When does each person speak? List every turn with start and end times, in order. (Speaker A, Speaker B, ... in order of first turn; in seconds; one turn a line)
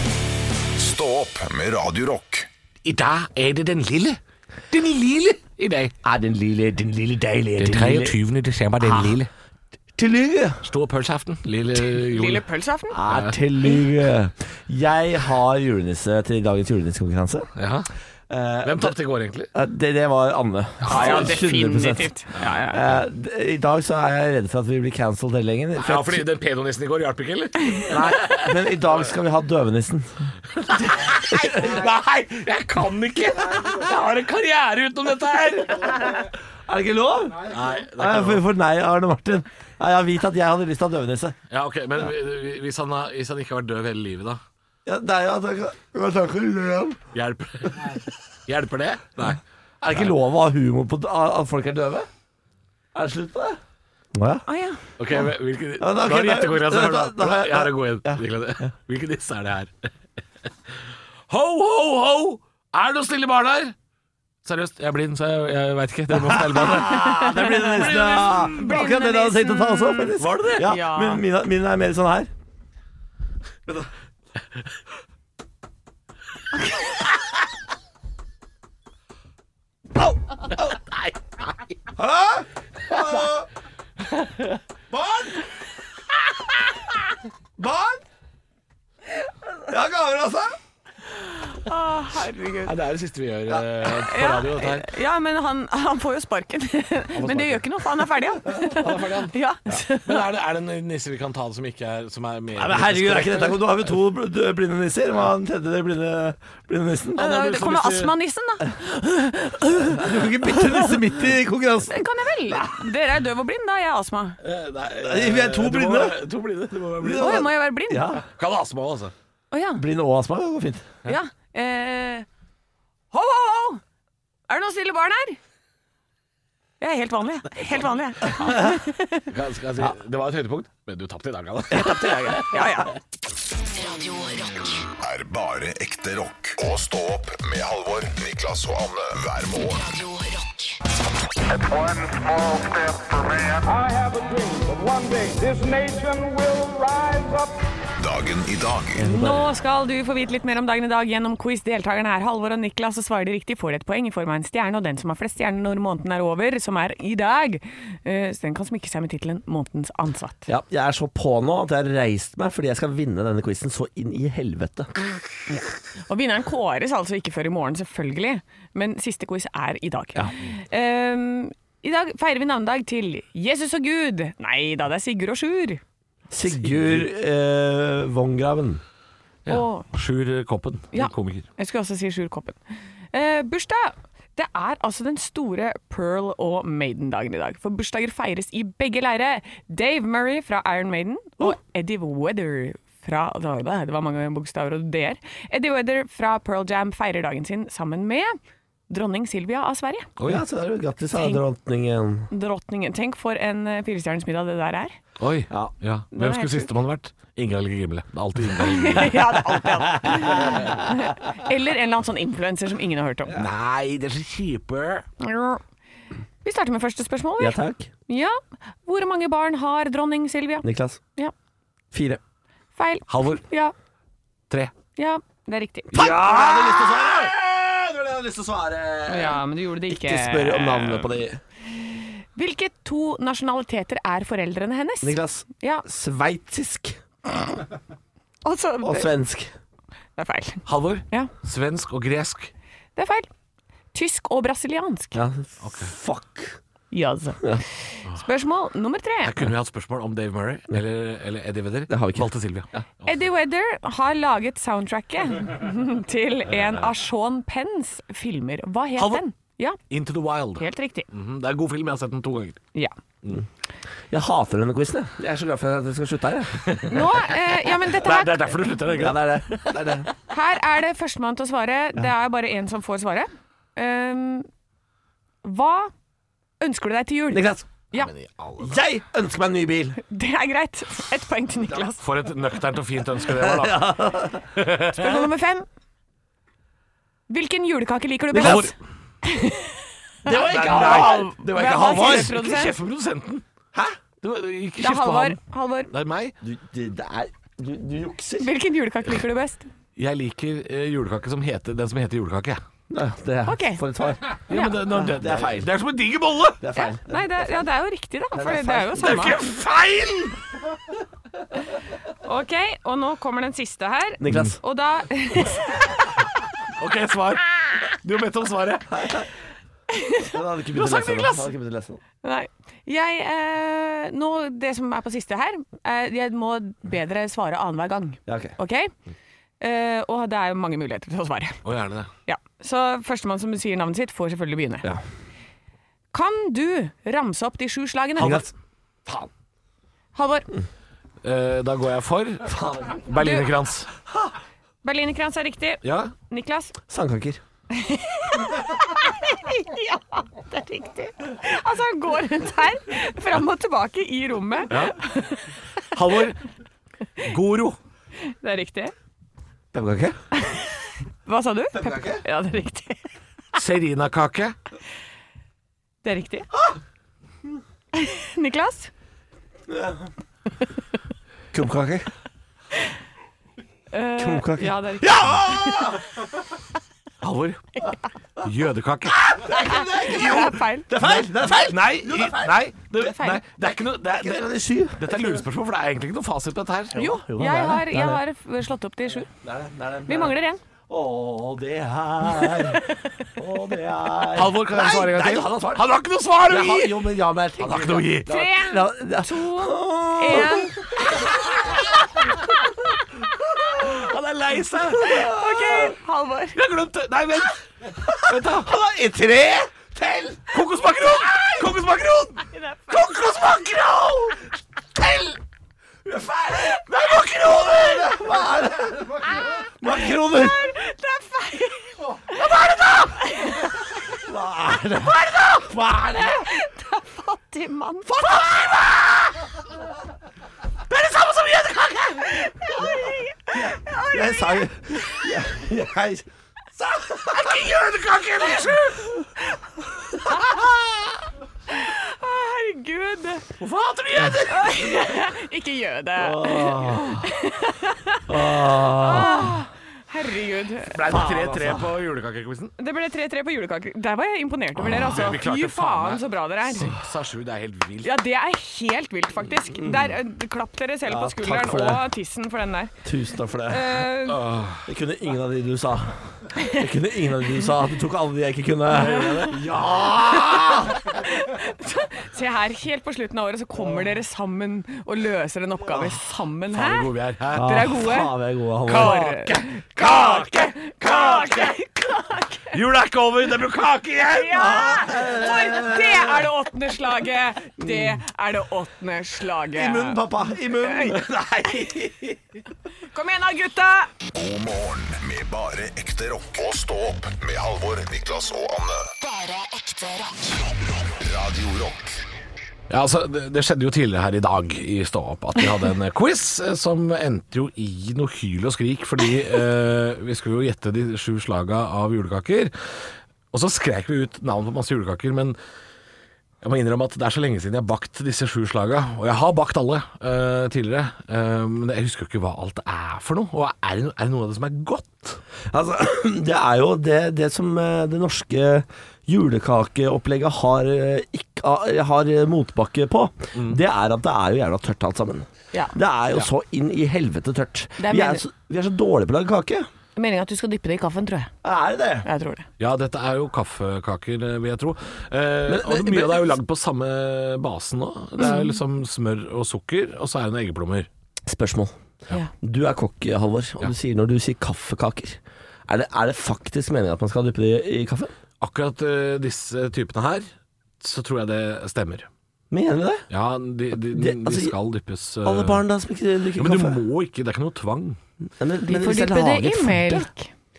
Speaker A: 0.8-2.5
Speaker B: 2.9-4.2
Speaker B: 4.7-5.9
Speaker C: 6.0-8.2
Speaker B: 7.6-9.3
Speaker C: 8.8-9.2
Speaker C: 10.0-10.7
Speaker B: 10.6-12.4
Speaker D: 11.9-13.0
Speaker C: 12.9-17.5
Speaker B: 13.1-13.4
Speaker B: 17.6-17.9
Speaker C: 18.3-18.9
Speaker B: 18.6-19.5
Speaker C: 19.5-22.1
Speaker B: 20.9-21.3
Speaker D: 20.9-22.8
Speaker B: 22.3-22.9
Speaker C: 22.7-26.3
Speaker B: 25.8-28.5
Speaker C: 27.9-30.3
Speaker B: 30.6-36.3
Speaker C: 31.0-31.9
Speaker C: 35.8-41.4
Speaker B: 37.5-38.5
Speaker B: 41.5-44.4
Speaker C: 44.9-47.0
Speaker B: 47.1-49.4
Speaker C: 49.8-52.1
Speaker C: 52.9-53.6
Speaker C: 54.1-54.4
Speaker D: 54.5-54.8
Speaker B: 55.0-59.9
Speaker C: 55.8-58.2
Speaker B: 61.3-63.8
Speaker B: 64.5-68.8
Speaker C: 66.1-72.3
Speaker D: 66.8-71.2
Speaker B: 70.2-70.7
Speaker B: 80.5-81.1
Speaker C: 82.0-83.5
Speaker B: 84.1-84.6
Speaker C: 84.9-85.4
Speaker C: 87.6-88.0
Speaker C: 89.6-90.6
Speaker D: 91.1-92.8
Speaker B: 92.6-94.9
Speaker D: 94.0-100.3
Speaker B: 97.1-103.8
Speaker C: 102.6-107.3
Speaker D: 107.1-110.1
Speaker B: 107.2-108.2
Speaker C: 109.8-112.0
Speaker D: 111.9-114.4
Speaker B: 114.4-117.4
Speaker C: 115.0-116.2
Speaker C: 117.0-118.2
Speaker D: 117.2-118.1
Speaker B: 118.2-119.1
Speaker D: 119.5-119.8
Speaker C: 119.8-120.9
Speaker D: 121.0-122.3
Speaker D: 123.1-123.8
Speaker D: 124.5-125.4
Speaker D: 126.8-129.3
Speaker C: 128.4-128.8
Speaker B: 129.3-132.5
Speaker C: 131.7-132.5
Speaker D: 131.8-132.9
Speaker E: 133.6-134.9
Speaker A: 135.0-139.8
Speaker E: 139.6-140.8
Speaker F: 141.5-143.6
Speaker G: 143.6-147.6
Speaker A: 148.0-149.0
Speaker C: 148.9-149.5
Speaker D: 149.0-160.5
Speaker C: 160.5-164.9
Speaker D: 165.5-175.8
Speaker C: 176.3-178.8
Speaker B: 176.5-177.1
Speaker B: 179.5-181.5
Speaker D: 179.5-179.8
Speaker D: 180.9-182.6
Speaker D: 183.1-198.4
Speaker D: 198.9-200.1
Speaker B: 200.2-200.4
Speaker C: 200.2-202.3
Speaker D: 202.3-204.9
Speaker B: 205.2-209.4
Speaker D: 206.1-206.7
Speaker D: 208.6-213.3
Speaker C: 209.9-210.7
Speaker B: 210.2-210.8
Speaker B: 213.3-215.1
Speaker D: 215.2-215.6
Speaker D: 216.4-221.3
Speaker C: 217.4-217.9
Speaker C: 220.6-221.0
Speaker C: 221.9-222.2
Speaker D: 222.8-223.7
Speaker B: 223.1-223.4
Speaker D: 225.0-226.5
Speaker C: 225.9-231.4
Speaker B: 226.0-229.0
Speaker D: 229.1-231.1
Speaker D: 231.9-235.8
Speaker C: 235.0-237.0
Speaker D: 238.4-239.1
Speaker C: 238.8-239.5
Speaker D: 240.2-241.3
Speaker B: 240.7-242.5
Speaker D: 243.0-243.3
Speaker D: 243.9-245.2
Speaker C: 245.2-246.6
Speaker B: 245.6-245.9
Speaker D: 246.9-249.4
Speaker B: 249.2-253.2
Speaker C: 251.9-252.8
Speaker D: 253.0-259.8
Speaker B: 259.0-259.2
Speaker B: 259.9-262.6
Speaker D: 260.6-261.1
Speaker C: 264.1-266.7
Speaker B: 266.6-266.9
Speaker D: 266.9-268.5
Speaker B: 267.8-270.1
Speaker C: 268.9-270.1
Speaker D: 270.3-274.5
Speaker D: 275.4-275.9
Speaker D: 276.6-278.1
Speaker C: 277.3-277.7
Speaker B: 277.9-278.8
Speaker C: 278.6-280.0
Speaker D: 280.1-282.0
Speaker B: 282.0-283.9
Speaker C: 283.3-284.5
Speaker B: 284.6-285.2
Speaker D: 284.9-285.7
Speaker D: 287.3-292.8
Speaker C: 288.3-288.7
Speaker B: 288.4-288.7
Speaker C: 290.2-292.4
Speaker B: 290.4-293.4
Speaker C: 293.7-294.0
Speaker B: 294.2-295.4
Speaker D: 294.8-295.9
Speaker B: 295.9-296.3
Speaker C: 296.4-298.5
Speaker D: 298.4-299.7
Speaker B: 300.0-302.6
Speaker C: 302.9-305.7
Speaker D: 303.4-303.8
Speaker B: 304.2-306.6
Speaker D: 304.5-304.8
Speaker C: 306.6-307.1
Speaker D: 306.8-309.4
Speaker C: 308.3-309.1
Speaker B: 309.0-310.4
Speaker D: 312.2-316.3
Speaker C: 314.2-314.6
Speaker B: 316.8-319.0
Speaker C: 318.9-319.2
Speaker D: 319.9-321.5
Speaker C: 320.2-322.0
Speaker D: 322.2-328.9
Speaker C: 328.3-328.6
Speaker D: 329.6-331.6
Speaker B: 331.6-332.1
Speaker D: 332.2-334.9
Speaker D: 336.1-338.4
Speaker C: 338.2-338.5
Speaker D: 340.1-340.5
Speaker B: 341.2-343.9
Speaker C: 342.5-342.9
Speaker D: 343.1-343.5
Speaker D: 344.8-346.8
Speaker B: 345.8-346.1
Speaker C: 346.9-347.4
Speaker D: 347.7-355.6
Speaker B: 354.7-355.0
Speaker B: 355.9-356.4
Speaker B: 357.2-357.8
Speaker D: 358.3-358.9
Speaker C: 359.7-360.2
Speaker D: 360.4-363.1
Speaker C: 361.7-362.2
Speaker B: 363.6-364.6
Speaker D: 366.0-366.5
Speaker D: 367.9-368.9
Speaker C: 369.7-370.1
Speaker C: 371.5-372.1
Speaker D: 373.9-376.1
Speaker C: 374.2-376.1
Speaker B: 377.2-377.6
Speaker B: 378.4-379.4
Speaker C: 379.1-382.6
Speaker D: 379.4-380.9
Speaker B: 381.0-387.0
Speaker D: 383.0-383.4
Speaker C: 384.1-385.4
Speaker C: 386.9-388.2
Speaker D: 386.9-389.3
Speaker C: 389.3-390.4
Speaker D: 390.1-390.6
Speaker C: 390.9-395.9
Speaker B: 394.2-398.3
Speaker C: 396.5-400.9
Speaker D: 398.2-401.4
Speaker B: 403.7-405.3
Speaker C: 405.0-405.9
Speaker D: 405.1-406.6
Speaker B: 406.6-408.7
Speaker C: 408.2-410.6
Speaker B: 410.5-414.4
Speaker D: 412.5-413.1
Speaker B: 415.0-415.4
Speaker C: 416.1-420.7
Speaker B: 416.9-418.3
Speaker D: 419.5-422.4
Speaker B: 422.3-423.2
Speaker D: 423.1-424.1
Speaker C: 424.1-426.5
Speaker D: 426.2-428.4
Speaker C: 428.2-429.0
Speaker B: 428.4-429.2
Speaker B: 430.9-432.4
Speaker D: 432.2-435.2
Speaker C: 434.1-436.2
Speaker C: 436.8-437.5
Speaker B: 437.1-439.3
Speaker D: 440.2-440.5
Speaker D: 441.7-443.5
Speaker B: 443.6-445.3
Speaker D: 444.5-451.0
Speaker C: 446.2-447.2
Speaker C: 448.3-449.6
Speaker B: 450.9-452.8
Speaker C: 451.1-451.9
Speaker D: 452.8-457.0
Speaker B: 454.8-458.2
Speaker D: 458.0-462.9
Speaker C: 459.7-460.1
Speaker C: 461.1-462.1
Speaker C: 463.0-464.1
Speaker D: 463.7-464.4
Speaker B: 464.2-464.9
Speaker C: 464.8-471.1
Speaker D: 466.6-466.8
Speaker D: 469.0-469.5
Speaker B: 469.5-470.9
Speaker D: 470.9-478.3
Speaker B: 476.7-477.7
Speaker C: 477.5-479.3
Speaker B: 478.9-481.7
Speaker D: 478.9-482.8
Speaker B: 482.7-485.2
Speaker D: 484.3-491.2
Speaker C: 484.5-486.4
Speaker C: 487.8-488.1
Speaker C: 489.7-491.4
Speaker B: 491.1-492.4
Speaker D: 493.1-494.1
Speaker A: 494.3-499.1
Speaker E: 499.2-500.7
Speaker A: 501.0-502.2
Speaker B: 502.9-512.7
Speaker B: 513.5-515.6
Speaker B: 516.6-525.4
Speaker C: 525.7-539.9
Speaker D: 538.0-538.4
Speaker D: 540.1-541.5
Speaker C: 541.6-542.3
Speaker D: 542.2-542.6
Speaker B: 542.8-551.1
Speaker C: 545.7-546.6
Speaker D: 548.4-548.7
Speaker C: 551.5-552.0
Speaker C: 552.6-558.3
Speaker B: 558.6-560.5
Speaker B: 561.0-562.3
Speaker C: 562.7-563.2
Speaker B: 563.3-565.8
Speaker C: 564.1-564.7
Speaker C: 565.4-567.0
Speaker B: 566.5-568.2
Speaker C: 568.6-570.3
Speaker D: 568.8-570.5